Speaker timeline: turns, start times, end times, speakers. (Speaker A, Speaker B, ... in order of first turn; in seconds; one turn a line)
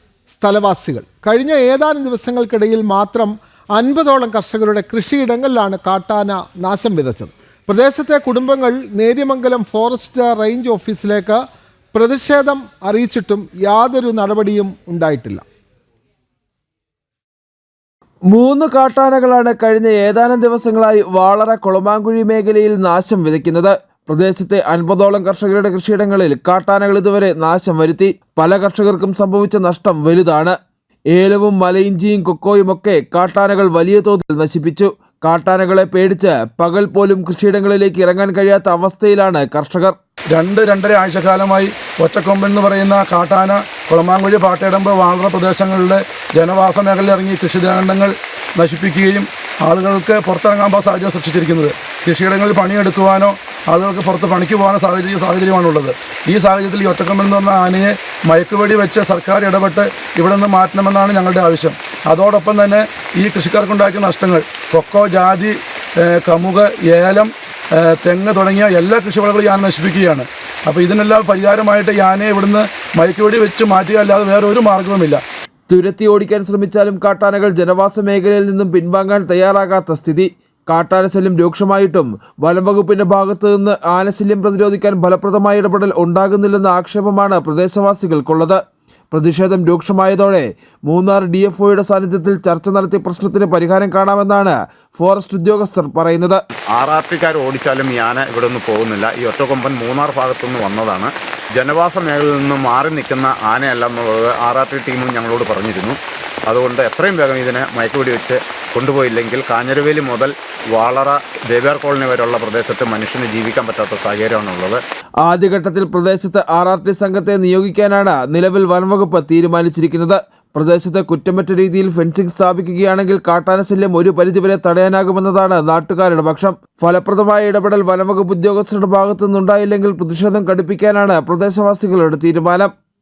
Speaker A: 0.3-11.4
Speaker A: 11.9-15.4
Speaker B: 18.3-30.5
Speaker B: 31.1-40.0
Speaker C: 40.3-75.2
Speaker B: 75.7-88.6
Speaker B: 89.1-96.4
Speaker D: 96.7-106.0
Speaker D: 106.5-114.8
Speaker B: 115.2-132.7